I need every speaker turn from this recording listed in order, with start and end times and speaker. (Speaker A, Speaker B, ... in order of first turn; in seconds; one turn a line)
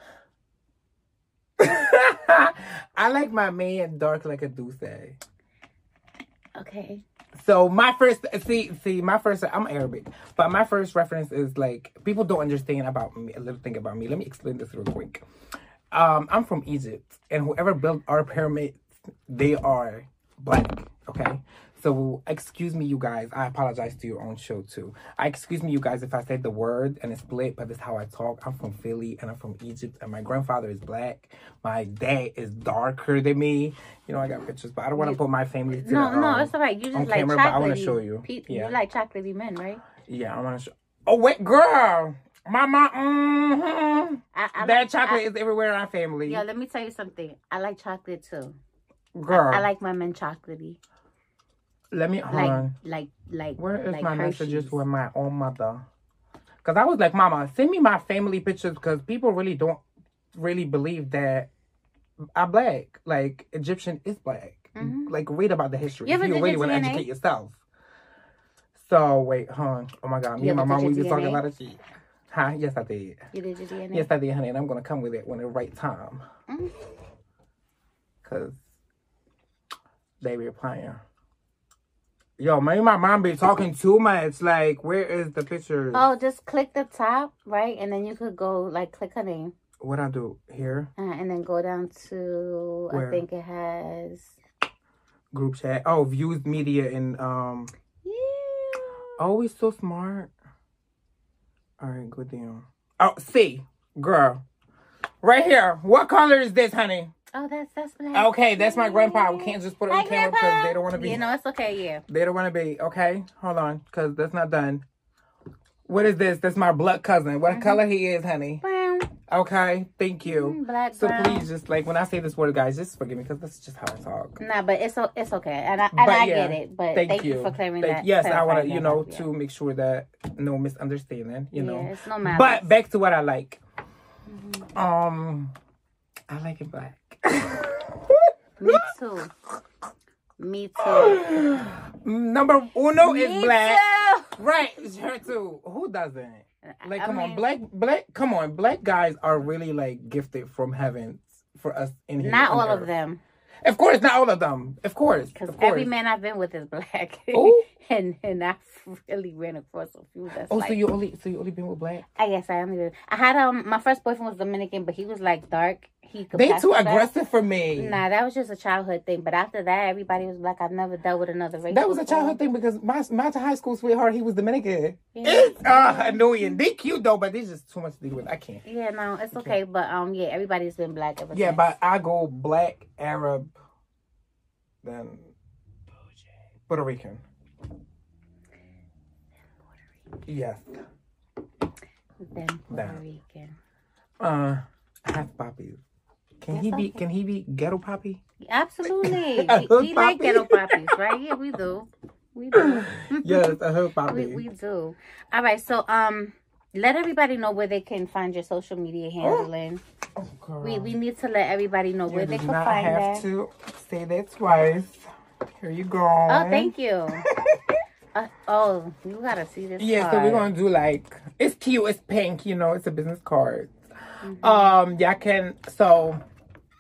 Speaker A: 1.6-5.2
Speaker B: 6.6-7.0
Speaker A: 7.3-15.2
Speaker A: 15.9-38.8
Speaker B: 35.7-39.8
Speaker A: 40.0-46.4
Speaker B: 44.3-45.2
Speaker B: 46.3-48.6
Speaker A: 49.1-49.7
Speaker B: 49.3-50.8
Speaker A: 51.9-52.8
Speaker B: 52.3-54.8
Speaker A: 53.6-55.9
Speaker A: 56.6-59.8
Speaker A: 60.3-61.5
Speaker A: 62.4-67.6
Speaker B: 64.8-65.1
Speaker B: 66.0-67.1
Speaker A: 68.8-73.2
Speaker B: 70.4-71.4
Speaker B: 73.3-74.1
Speaker A: 73.9-76.2
Speaker A: 78.2-78.6
Speaker A: 80.2-81.0
Speaker A: 82.4-86.1
Speaker B: 85.9-89.5
Speaker A: 89.8-90.9
Speaker B: 91.0-94.3
Speaker A: 92.9-93.2
Speaker A: 95.3-97.7
Speaker B: 98.0-99.2
Speaker A: 99.2-100.3
Speaker A: 101.8-104.4
Speaker A: 105.2-107.1
Speaker B: 107.3-112.0
Speaker A: 108.1-111.2
Speaker A: 112.1-114.8
Speaker A: 115.9-118.6
Speaker B: 117.5-117.8
Speaker B: 118.6-119.1
Speaker A: 119.3-124.4
Speaker B: 120.2-121.5
Speaker B: 124.4-129.3
Speaker A: 125.9-133.6
Speaker B: 131.6-132.7
Speaker B: 134.3-134.7
Speaker A: 134.8-135.6
Speaker A: 136.3-138.9
Speaker B: 138.6-139.3
Speaker B: 140.4-141.2
Speaker A: 140.8-152.9
Speaker B: 143.0-144.4
Speaker B: 146.7-147.4
Speaker B: 152.2-153.2
Speaker A: 153.6-155.9
Speaker B: 155.3-160.8
Speaker A: 157.3-157.7
Speaker A: 160.5-162.1
Speaker B: 162.2-167.1
Speaker A: 166.3-168.0
Speaker B: 167.8-172.4
Speaker A: 171.7-178.6
Speaker B: 175.1-176.6
Speaker B: 178.7-181.7
Speaker A: 181.3-183.5
Speaker A: 184.8-185.3
Speaker A: 186.7-187.2
Speaker A: 190.3-190.7
Speaker B: 192.2-193.6
Speaker A: 192.7-193.0
Speaker A: 194.2-195.8
Speaker A: 196.4-198.2
Speaker B: 196.5-197.0
Speaker B: 198.4-203.6
Speaker A: 199.0-201.2
Speaker A: 202.5-204.4
Speaker B: 204.1-209.8
Speaker A: 209.2-209.5
Speaker A: 210.2-210.9
Speaker B: 210.6-213.3
Speaker A: 212.1-215.1
Speaker A: 215.6-217.8
Speaker B: 216.3-217.3
Speaker B: 218.2-220.5
Speaker A: 219.8-223.8
Speaker B: 224.2-224.8
Speaker A: 224.4-226.2